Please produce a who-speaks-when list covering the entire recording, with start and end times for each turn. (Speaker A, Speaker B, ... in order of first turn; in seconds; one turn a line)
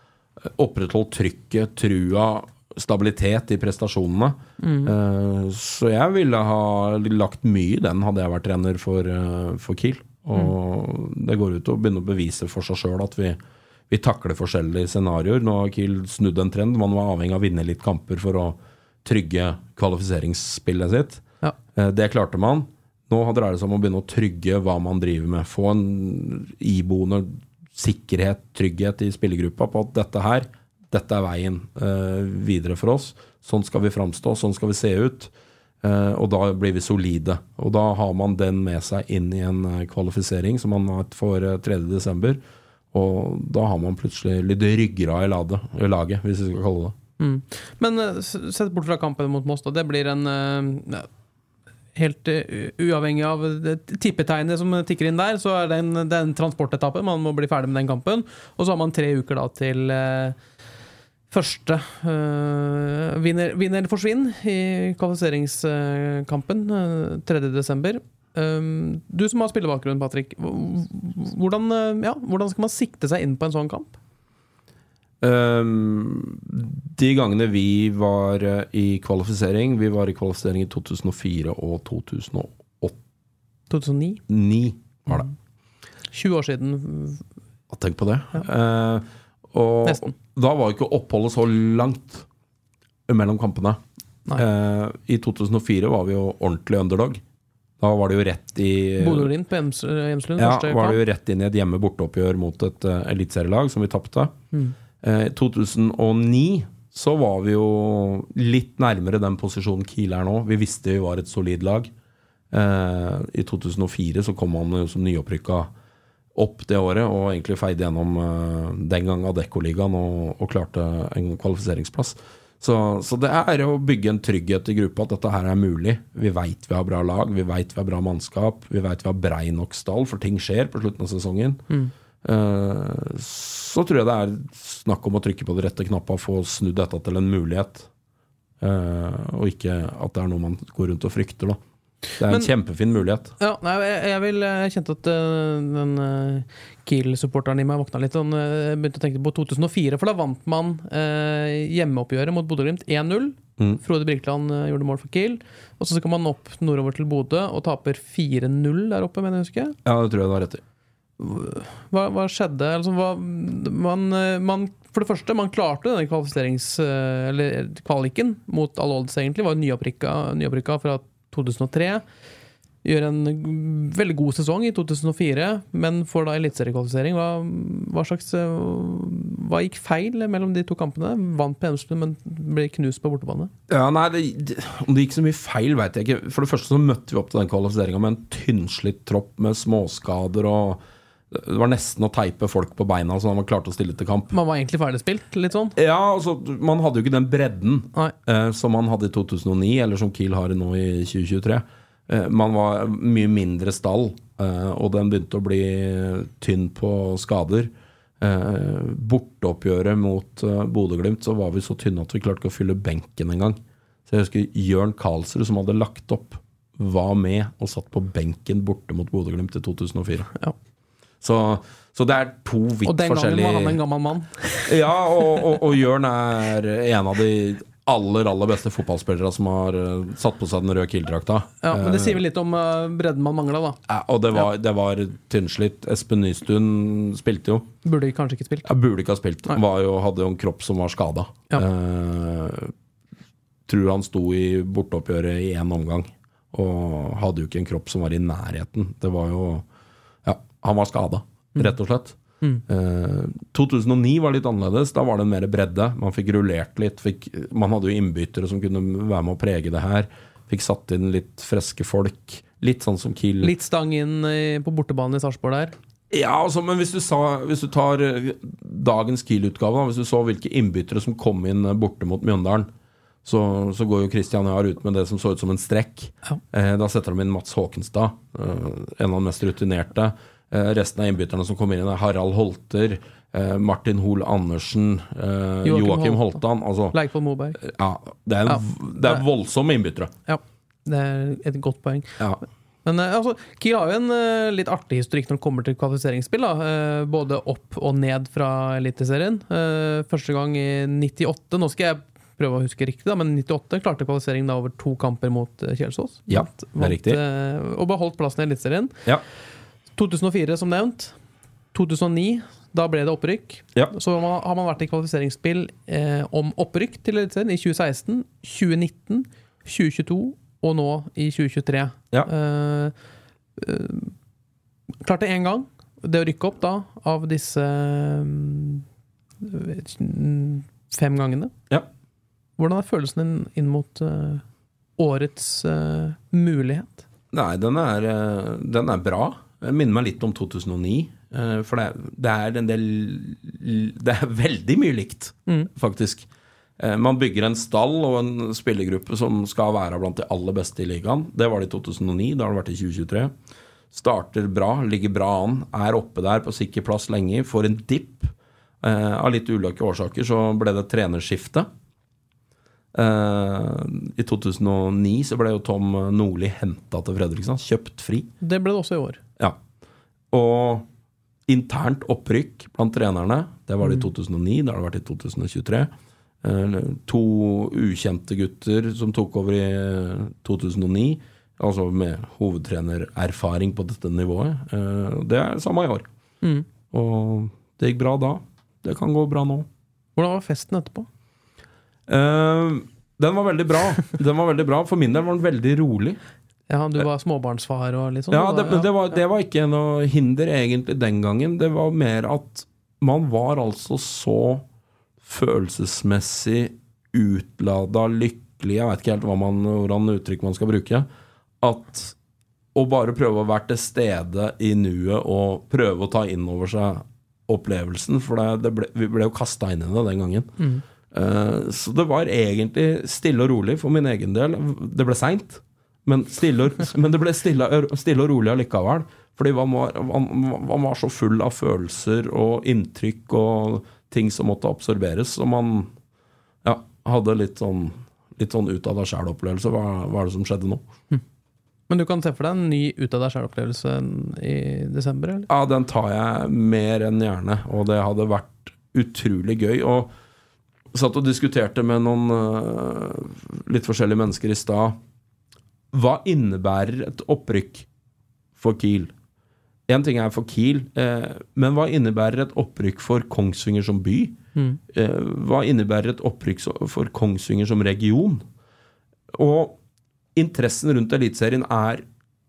Speaker A: 0.4-13.4
Speaker B: 4.6-4.9
Speaker A: 13.9-21.2
Speaker A: 21.8-42.4
Speaker A: 42.9-47.0
Speaker B: 47.2-51.1
Speaker B: 51.9-60.4
Speaker B: 61.3-73.9
Speaker A: 75.2-83.0
Speaker B: 83.7-84.2
Speaker A: 84.3-85.3
Speaker B: 86.1-87.2
Speaker A: 87.7-92.3
Speaker B: 89.9-90.1
Speaker A: 93.1-93.8
Speaker A: 94.3-97.2
Speaker A: 97.8-99.3
Speaker B: 99.0-101.0
Speaker A: 100.4-104.3
Speaker A: 105.0-111.9
Speaker A: 112.5-115.7
Speaker A: 116.3-131.6
Speaker A: 132.2-137.9
Speaker A: 138.6-141.6
Speaker A: 142.2-143.3
Speaker B: 143.4-159.8
Speaker A: 159.8-160.6
Speaker B: 161.2-172.0
Speaker B: 172.8-183.5
Speaker A: 183.7-194.3
Speaker B: 194.3-195.8
Speaker A: 195.8-220.3
Speaker A: 221.2-223.8
Speaker B: 222.8-224.7
Speaker A: 224.7-232.2
Speaker B: 231.6-233.8
Speaker A: 233.9-237.7
Speaker B: 237.8-238.7
Speaker A: 238.7-242.7
Speaker A: 243.7-249.7
Speaker A: 250.2-263.5
Speaker B: 263.4-265.8
Speaker A: 266.1-272.7
Speaker A: 273.2-287.0
Speaker B: 285.6-286.4
Speaker B: 286.9-287.6
Speaker A: 287.6-290.1
Speaker B: 288.5-289.2
Speaker B: 290.3-292.2
Speaker B: 292.9-308.9
Speaker A: 306.3-307.2
Speaker B: 310.0-311.1
Speaker B: 311.7-322.9
Speaker B: 323.6-324.1
Speaker B: 325.0-328.8
Speaker B: 329.4-331.5
Speaker B: 332.6-334.4
Speaker B: 335.0-337.0
Speaker A: 337.3-346.3
Speaker A: 346.8-353.3
Speaker A: 353.9-361.7
Speaker A: 362.9-368.3
Speaker B: 368.4-369.2
Speaker A: 370.3-370.9
Speaker A: 371.5-375.9
Speaker A: 376.4-386.1
Speaker B: 386.4-386.7
Speaker A: 386.9-389.7
Speaker B: 390.2-391.1
Speaker A: 392.1-396.2
Speaker B: 396.7-398.9
Speaker A: 398.3-404.6
Speaker A: 405.2-411.1
Speaker A: 411.6-412.1
Speaker A: 412.7-420.5
Speaker A: 421.1-435.9
Speaker A: 436.6-440.9
Speaker B: 441.9-445.5
Speaker A: 445.5-450.1
Speaker A: 450.9-455.0
Speaker A: 455.9-457.9
Speaker A: 458.6-459.1
Speaker A: 459.9-464.4
Speaker A: 464.9-468.4
Speaker A: 469.3-469.8
Speaker A: 470.4-472.1